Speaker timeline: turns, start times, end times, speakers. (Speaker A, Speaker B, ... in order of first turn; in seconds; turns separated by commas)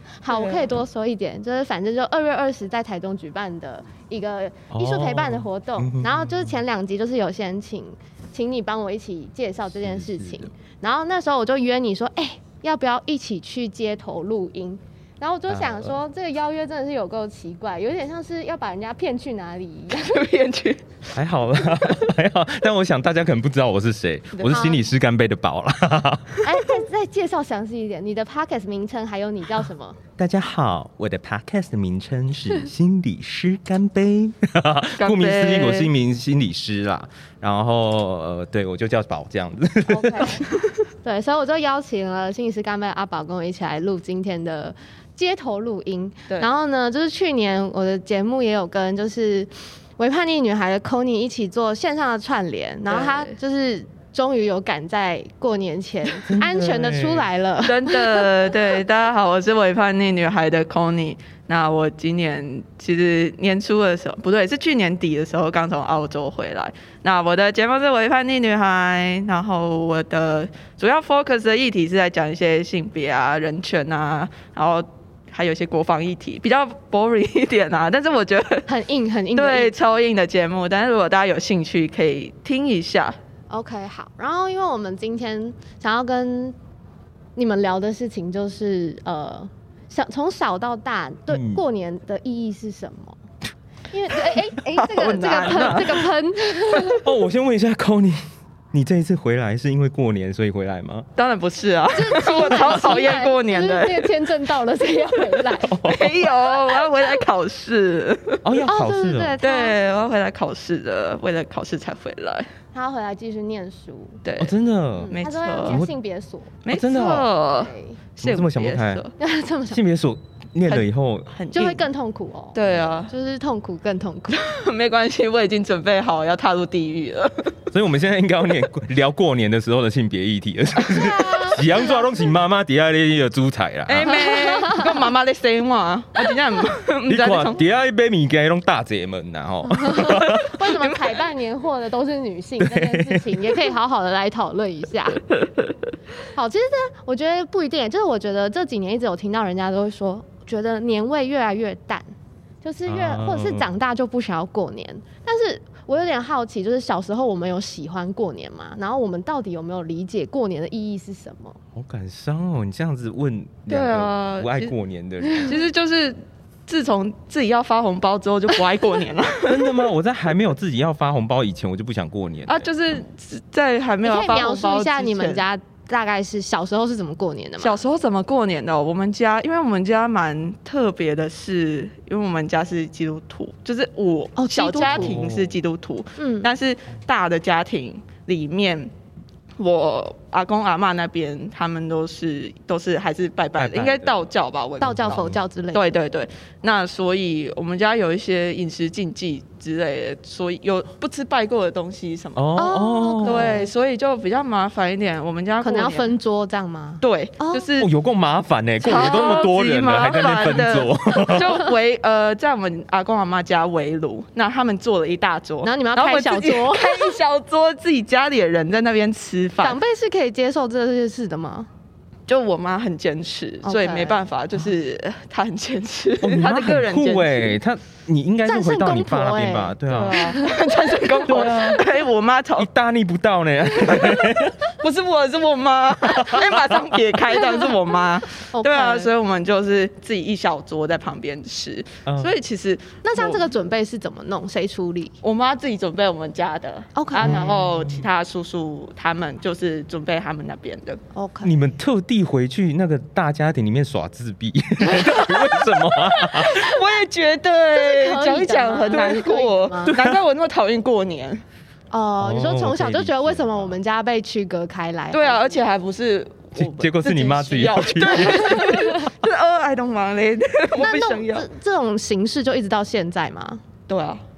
Speaker A: 0.2-20.2, Speaker B: 0.3-0.7, Speaker C: 4.7-6.6, Speaker C: 9.8-10.5, Speaker C: 15.5-15.9, Speaker B: 19.9-20.9, Speaker C: 21.1-26.5, Speaker B: 24.4-24.6, Speaker A: 24.5-24.8, Speaker A: 26.4-30.0, Speaker C: 30.2-40.4, Speaker B: 35.0-35.9, Speaker A: 39.9-40.5, Speaker A: 41.0-58.5, Speaker B: 52.9-53.3, Speaker C: 56.3-57.3, Speaker B: 57.6-78.7, Speaker A: 78.7-79.8, Speaker B: 79.3-83.2, Speaker A: 83.5-86.6, Speaker A: 87.4-93.2, Speaker C: 91.3-91.6, Speaker A: 93.9-97.0, Speaker B: 94.7-96.1, Speaker C: 95.6-95.8, Speaker C: 97.0-101.1, Speaker B: 101.2-104.1, Speaker A: 101.9-105.8, Speaker C: 105.6-106.3, Speaker B: 105.8-108.4, Speaker C: 108.4-109.4, Speaker A: 108.7-109.8, Speaker B: 109.4-112.5, Speaker A: 112.7-114.2, Speaker B: 114.2-114.5, Speaker C: 114.4-115.9, Speaker A: 115.0-116.6, Speaker B: 115.1-115.8, Speaker B: 116.6-119.1, Speaker C: 116.7-117.3, Speaker A: 117.6-118.0, Speaker C: 118.2-119.0, Speaker A: 119.2-119.8, Speaker C: 119.7-121.3, Speaker B: 120.7-121.9, Speaker A: 121.5-124.5, Speaker B: 122.5-123.1, Speaker B: 124.3-127.6, Speaker C: 127.7-134.3, Speaker A: 130.9-132.1, Speaker B: 133.9-137.6, Speaker A: 134.3-134.9, Speaker C: 137.1-140.6, Speaker A: 139.8-145.2, Speaker C: 142.6-143.5, Speaker A: 146.3-152.1, Speaker A: 152.6-161.6, Speaker C: 152.9-153.8, Speaker C: 161.7-165.6, Speaker B: 163.7-164.7, Speaker B: 165.4-169.7, Speaker C: 169.4-172.7, Speaker B: 172.5-175.4, Speaker A: 174.0-177.8, Speaker B: 177.6-188.9, Speaker A: 184.4-185.2, Speaker C: 184.9-185.6, Speaker A: 186.2-186.5, Speaker B: 189.6-202.5, Speaker C: 193.6-194.2, Speaker A: 194.8-195.8, Speaker C: 195.0-195.4, Speaker C: 202.4-203.7, Speaker A: 202.6-203.7, Speaker B: 203.2-206.1, Speaker A: 205.6-207.7, Speaker B: 207.0-207.9, Speaker C: 207.8-211.6, Speaker B: 208.8-219.8, Speaker A: 215.6-217.2, Speaker A: 219.6-221.7, Speaker B: 222.3-227.6, Speaker A: 223.6-224.2, Speaker C: 226.2-230.3, Speaker A: 228.5-231.8, Speaker B: 229.9-232.7, Speaker C: 231.3-231.8, Speaker C: 232.6-234.6, Speaker B: 234.8-243.5, Speaker C: 236.1-237.0, Speaker A: 237.3-237.8, Speaker A: 238.5-239.1, Speaker C: 242.1-242.4, Speaker A: 243.0-245.1, Speaker B: 245.2-251.0, Speaker A: 246.9-247.6, Speaker C: 247.2-248.1, Speaker A: 251.1-251.6, Speaker C: 251.4-256.7, Speaker B: 254.8-261.4, Speaker A: 257.7-260.0, Speaker A: 261.9-265.6, Speaker C: 262.2-263.8, Speaker B: 265.1-271.5, Speaker C: 266.6-268.8, Speaker A: 268.4-269.1, Speaker A: 270.8-273.6, Speaker B: 273.9-274.2